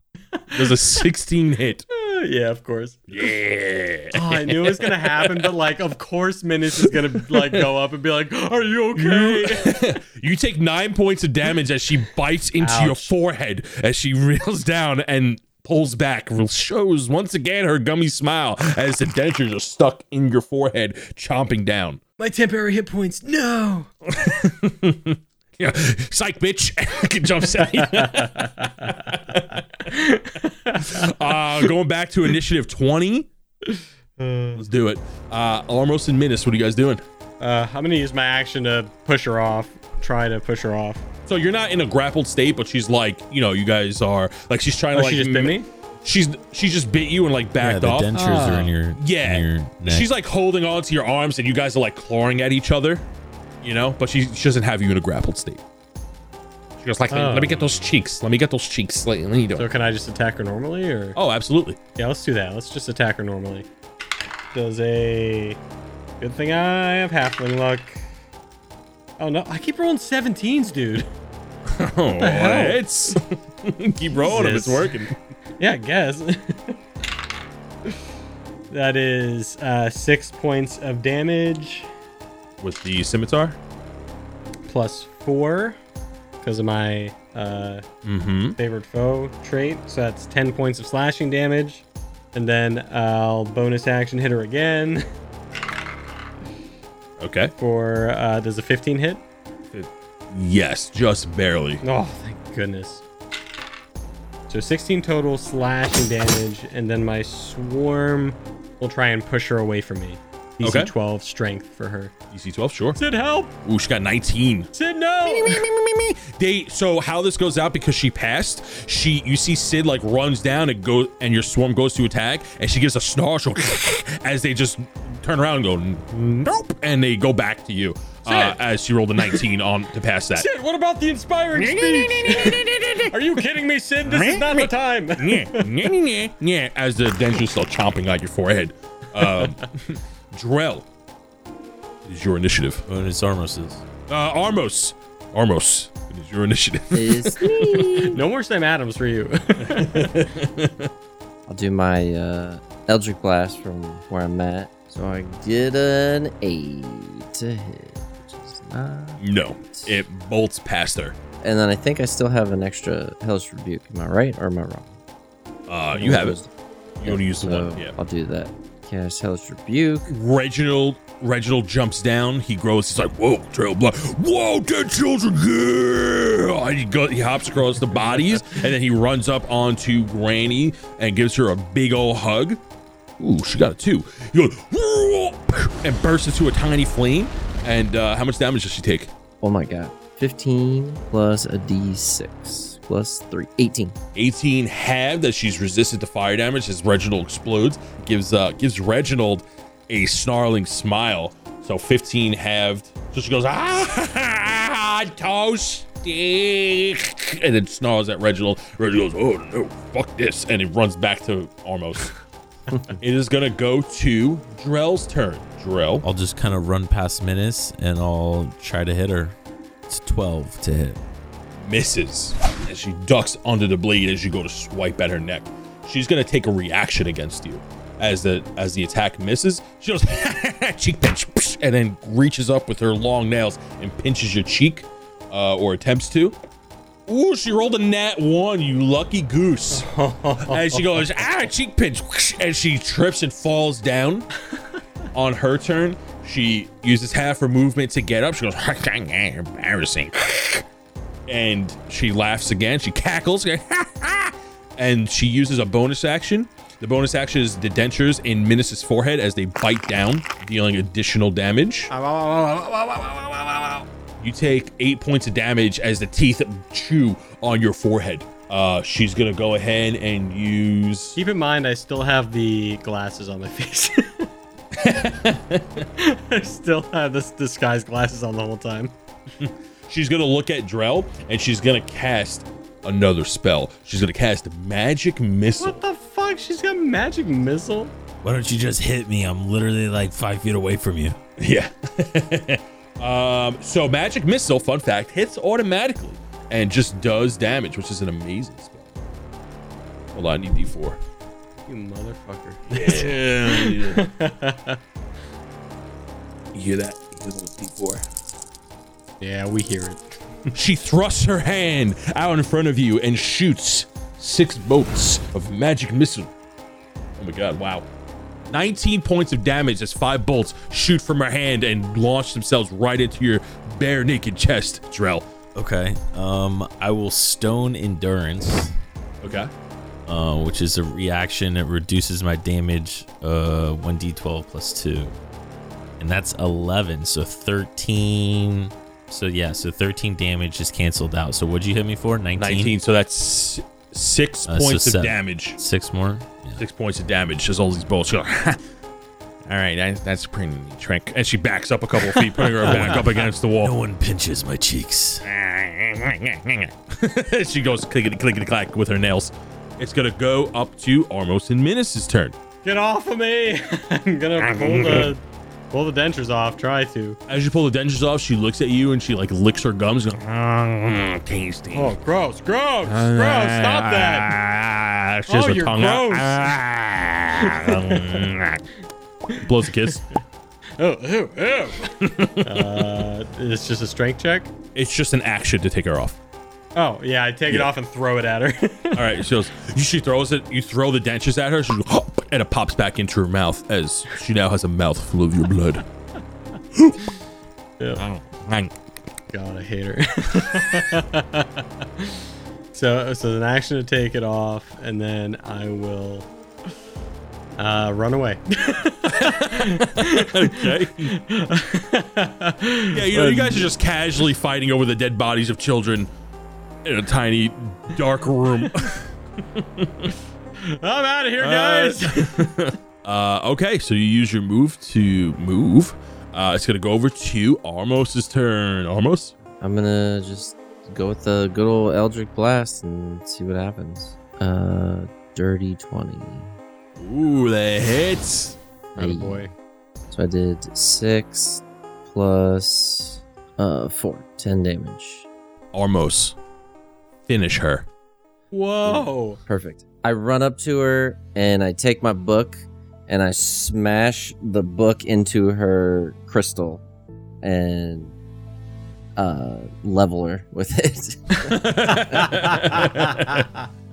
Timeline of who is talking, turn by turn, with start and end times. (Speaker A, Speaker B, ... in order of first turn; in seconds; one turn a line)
Speaker A: 0.3-1.1
Speaker B: 0.5-1.9
Speaker A: 1.9-3.3
Speaker B: 3.1-5.5
Speaker A: 4.1-9.8
Speaker B: 6.9-7.6
Speaker B: 9.0-22.0
Speaker A: 12.6-13.2
Speaker A: 22.2-23.9
Speaker B: 24.1-29.9
Speaker A: 27.6-29.0
Speaker A: 29.9-31.7
Speaker B: 30.7-33.3
Speaker A: 33.6-34.6
Speaker B: 34.6-37.0
Speaker A: 37.4-41.0
Speaker B: 41.3-48.2
Speaker A: 44.9-45.7
Speaker C: 47.6-50.1
Speaker A: 48.1-48.7
Speaker B: 49.0-53.1
Speaker B: 53.6-55.6
Speaker B: 56.8-59.7
Speaker A: 57.1-57.7
Speaker A: 59.6-61.2
Speaker B: 61.2-61.8
Speaker A: 62.0-63.7
Speaker A: 64.5-65.6
Speaker A: 66.2-68.0
Speaker A: 69.2-71.1
Speaker B: 71.7-75.1
Speaker A: 72.2-73.2
Speaker A: 74.1-76.8
Speaker A: 78.7-81.9
Speaker B: 82.6-83.6
Speaker A: 84.7-85.8
Speaker A: 86.4-87.8
Speaker B: 88.0-88.6
Speaker A: 88.6-95.0
Speaker B: 97.2-97.5
Speaker A: 97.6-99.2
Speaker B: 99.7-101.8
Speaker A: 101.8-103.0
Speaker A: 104.5-112.1
Speaker B: 110.6-110.9
Speaker B: 112.3-113.0
Speaker A: 113.0-113.5
Speaker B: 113.7-114.7
Speaker A: 114.7-115.7
Speaker B: 115.3-130.5
Speaker A: 128.3-128.6
Speaker A: 129.2-129.4
Speaker A: 130.3-135.9
Speaker B: 131.6-133.2
Speaker B: 134.1-140.9
Speaker B: 142.1-142.8
Speaker C: 142.9-143.8
Speaker B: 144.1-147.4
Speaker D: 146.9-148.2
Speaker A: 147.4-150.3
Speaker B: 149.6-150.9
Speaker D: 151.5-160.0
Speaker B: 159.2-161.2
Speaker D: 161.4-164.9
Speaker B: 165.7-166.4
Speaker D: 165.9-166.5
Speaker B: 167.0-167.9
Speaker D: 167.0-170.1
Speaker B: 170.1-182.6
Speaker B: 183.2-189.1
Speaker D: 189.4-194.0
Speaker B: 194.2-212.2
Speaker B: 213.0-216.1
Speaker C: 216.0-219.3
Speaker C: 219.9-221.0
Speaker B: 221.6-236.4
Speaker B: 237.1-239.9
Speaker A: 239.7-241.5
Speaker B: 240.4-244.3
Speaker B: 245.1-250.6
Speaker B: 251.3-261.9
Speaker A: 261.9-263.9
Speaker B: 264.2-271.2
Speaker A: 271.2-274.3
Speaker B: 274.8-275.9
Speaker A: 276.0-278.9
Speaker B: 279.4-285.8
Speaker A: 285.6-287.9
Speaker C: 288.2-291.2
Speaker B: 291.4-298.9
Speaker B: 300.1-301.0
Speaker A: 301.7-304.8
Speaker B: 302.7-304.1
Speaker B: 306.5-308.1
Speaker A: 309.2-310.0
Speaker B: 310.5-316.3
Speaker B: 317.2-317.9
Speaker B: 318.5-325.3
Speaker C: 325.6-328.8
Speaker B: 329.2-329.5
Speaker C: 330.1-335.2
Speaker C: 336.0-342.7
Speaker B: 342.4-345.6
Speaker C: 344.5-346.6
Speaker B: 346.6-348.6
Speaker B: 349.4-353.7
Speaker A: 352.6-353.1
Speaker C: 352.6-353.1
Speaker C: 353.6-355.3
Speaker B: 355.3-362.4
Speaker A: 362.6-367.2
Speaker B: 364.4-365.1
Speaker B: 367.3-371.9
Speaker A: 371.7-374.3
Speaker B: 372.9-378.6
Speaker A: 375.3-376.6
Speaker A: 377.4-378.3
Speaker B: 379.4-380.1
Speaker A: 380.8-384.5
Speaker B: 382.0-382.9
Speaker B: 384.8-386.2
Speaker A: 386.8-389.2
Speaker B: 388.9-395.9
Speaker B: 398.0-398.7
Speaker A: 399.3-402.2
Speaker A: 402.7-406.3
Speaker A: 407.6-413.7
Speaker B: 409.1-411.1
Speaker B: 412.9-416.1
Speaker B: 416.9-420.1
Speaker A: 420.6-422.5
Speaker B: 421.4-429.3
Speaker D: 429.6-436.5
Speaker B: 437.0-438.6
Speaker D: 439.0-439.4
Speaker A: 439.0-439.5
Speaker D: 440.1-445.3
Speaker B: 445.7-446.4
Speaker B: 447.3-447.9
Speaker A: 448.5-449.4
Speaker D: 448.9-456.8
Speaker D: 457.4-458.1
Speaker D: 459.2-462.8
Speaker B: 461.4-463.5
Speaker A: 462.1-463.5